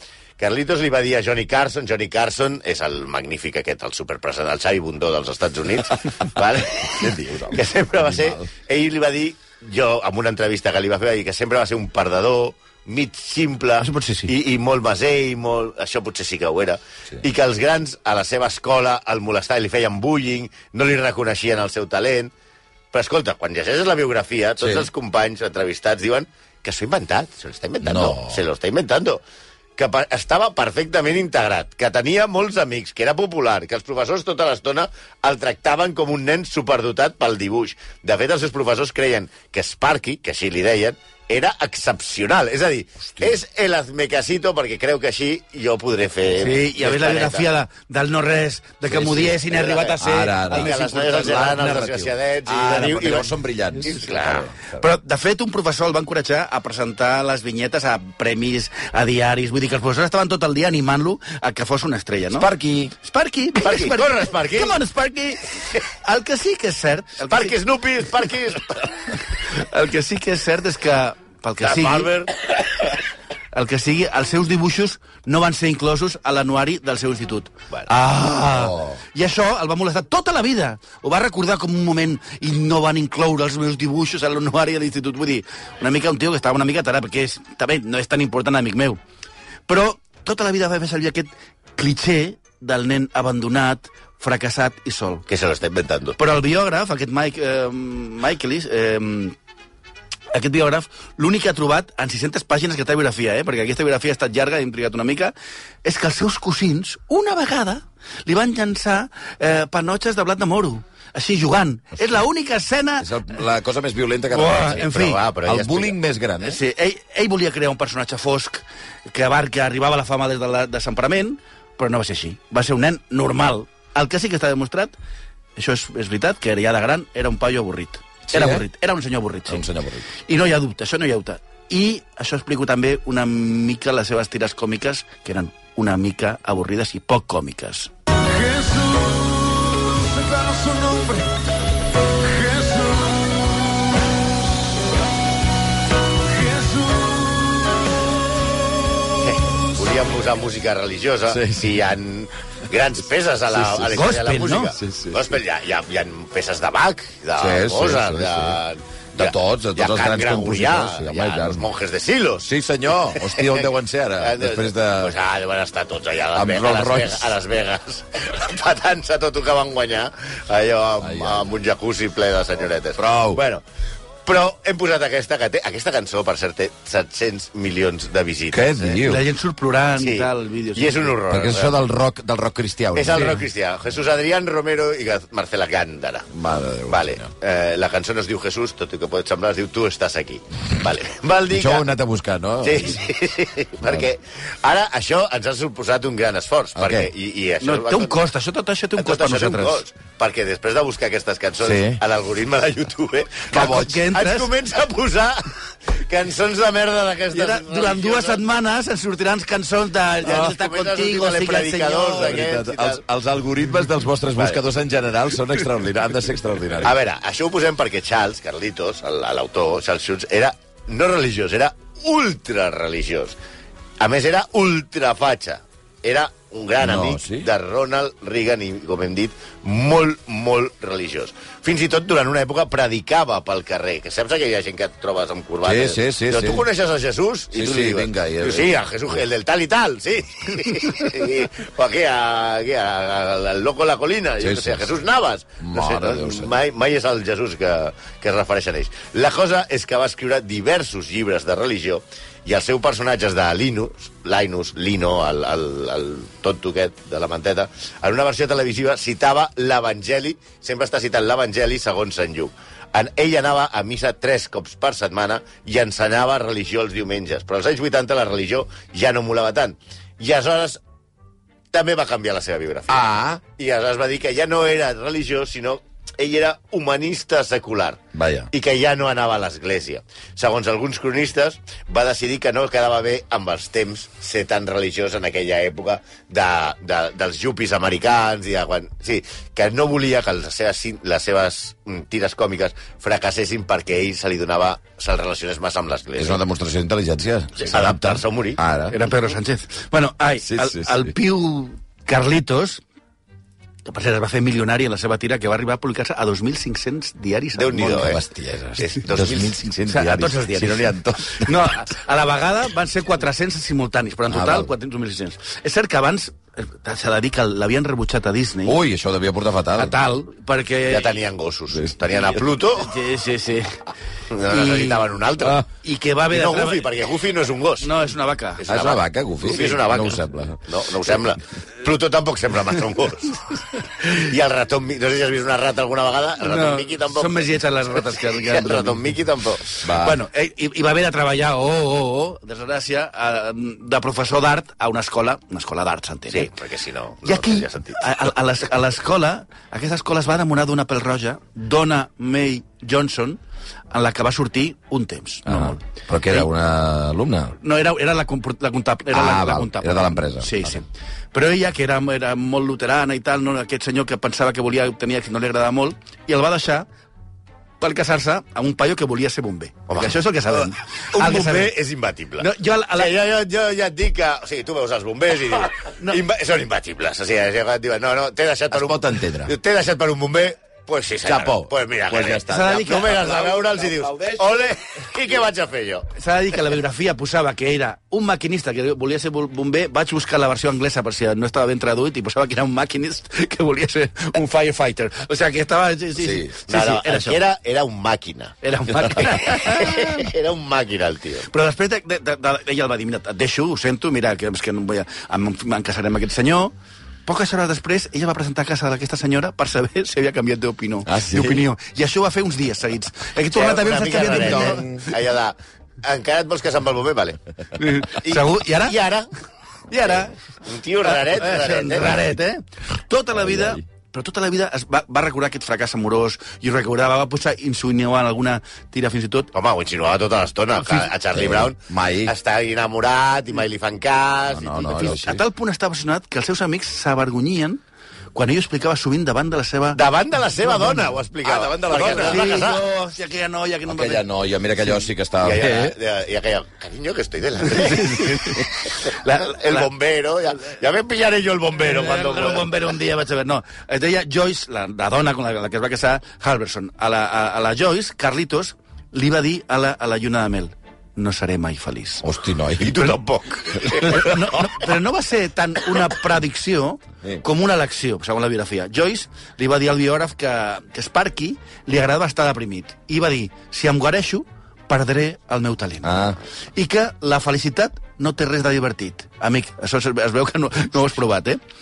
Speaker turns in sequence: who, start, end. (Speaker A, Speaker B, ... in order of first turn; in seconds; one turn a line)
Speaker A: 0.4-22.3
Speaker B: 6.9-8.5
Speaker C: 13.8-14.3
Speaker A: 22.9-29.2
Speaker B: 24.6-24.9
Speaker B: 27.8-28.4
Speaker A: 29.8-47.5
Speaker C: 46.4-51.9
Speaker B: 48.9-49.3
Speaker A: 49.3-50.0
Speaker B: 50.0-50.7
Speaker A: 50.5-53.3
Speaker B: 51.5-54.8
Speaker C: 52.5-53.2
Speaker A: 53.8-54.5
Speaker C: 54.8-62.5
Speaker B: 62.3-62.9
Speaker C: 63.0-67.6
Speaker A: 63.6-64.8
Speaker A: 67.3-69.2
Speaker C: 69.5-72.1
Speaker A: 71.6-72.3
Speaker C: 73.5-89.0
Speaker B: 78.5-79.0
Speaker C: 89.7-95.2
Speaker A: 95.3-96.2
Speaker C: 96.2-99.4
Speaker C: 100.3-113.1
Speaker B: 113.0-114.9
Speaker C: 114.3-115.2
Speaker A: 114.7-116.0
Speaker B: 115.4-116.6
Speaker C: 116.4-124.9
Speaker C: 125.6-129.7
Speaker B: 128.3-128.7
Speaker B: 129.5-130.1
Speaker C: 130.3-137.9
Speaker D: 138.3-141.3
Speaker D: 142.2-143.6
Speaker D: 146.3-147.6
Speaker A: 149.2-162.5
Speaker B: 151.3-151.8
Speaker B: 153.5-154.1
Speaker C: 153.9-154.8
Speaker B: 154.7-155.4
Speaker B: 157.4-158.6
Speaker B: 159.2-161.7
Speaker B: 162.4-165.2
Speaker A: 163.1-173.6
Speaker B: 166.3-167.3
Speaker B: 171.0-171.6
Speaker B: 173.0-173.4
Speaker A: 174.3-179.0
Speaker B: 178.5-179.2
Speaker C: 179.0-181.1
Speaker A: 180.0-181.8
Speaker B: 181.3-183.4
Speaker A: 182.9-186.3
Speaker B: 186.3-187.3
Speaker A: 186.9-191.9
Speaker B: 191.5-193.0
Speaker A: 192.6-198.2
Speaker B: 196.8-197.1
Speaker C: 197.6-199.8
Speaker A: 199.0-208.4
Speaker B: 201.6-202.0
Speaker C: 203.5-204.5
Speaker B: 203.5-204.0
Speaker C: 207.3-212.4
Speaker A: 210.2-213.0
Speaker B: 212.2-217.0
Speaker A: 214.4-214.6
Speaker A: 216.8-223.4
Speaker A: 224.0-270.8
Speaker B: 226.8-227.5
Speaker B: 235.6-236.7
Speaker B: 237.5-238.8
Speaker B: 244.4-244.9
Speaker B: 245.6-246.6
Speaker A: 271.7-296.4
Speaker B: 272.9-273.4
Speaker B: 278.1-278.5
Speaker B: 296.2-299.0
Speaker A: 297.6-298.6
Speaker C: 298.9-302.8
Speaker B: 300.4-301.1
Speaker C: 303.9-308.2
Speaker A: 307.6-308.2
Speaker B: 308.0-311.7
Speaker A: 308.8-310.3
Speaker C: 309.9-318.8
Speaker B: 314.3-314.7
Speaker B: 318.7-319.9
Speaker C: 319.8-321.2
Speaker A: 320.9-322.9
Speaker C: 322.8-323.8
Speaker A: 324.3-325.6
Speaker C: 324.4-326.9
Speaker A: 326.3-327.9
Speaker C: 327.8-328.6
Speaker A: 328.6-339.7
Speaker B: 328.7-330.6
Speaker C: 336.4-339.1
Speaker C: 339.8-346.5
Speaker B: 339.8-340.2
Speaker A: 346.3-348.3
Speaker C: 347.2-356.5
Speaker B: 355.5-357.6
Speaker C: 357.6-366.9
Speaker B: 359.1-360.8
Speaker C: 367.8-371.7
Speaker A: 369.9-386.1
Speaker C: 372.4-373.1
Speaker B: 378.7-379.5
Speaker B: 381.2-382.8
Speaker C: 382.5-384.4
Speaker C: 386.2-397.4
Speaker B: 396.2-396.5
Speaker A: 396.7-398.6
Speaker C: 398.6-400.3
Speaker A: 399.1-401.5
Speaker C: 401.5-406.7
Speaker C: 407.3-415.1
Speaker B: 411.1-411.6
Speaker A: 413.5-417.4
Speaker B: 414.3-415.1
Speaker C: 417.8-419.0
Speaker A: 418.1-419.3
Speaker C: 419.9-420.4
Speaker A: 420.0-422.2
Speaker C: 421.0-429.5
Speaker B: 423.3-423.8
Speaker A: 429.5-435.2
Speaker B: 431.3-432.3
Speaker B: 434.5-435.4
Speaker C: 434.9-437.8
Speaker C: 438.4-440.0
Speaker A: 439.9-442.8
Speaker C: 440.6-441.1
Speaker B: 441.4-442.6
Speaker C: 442.0-444.2
Speaker B: 443.9-446.0
Speaker A: 445.4-452.8
Speaker C: 447.7-449.9
Speaker C: 451.8-462.2
Speaker B: 462.2-463.2
Speaker A: 462.8-464.4
Speaker B: 463.8-464.2
Speaker C: 463.9-481.6
Speaker B: 476.0-476.4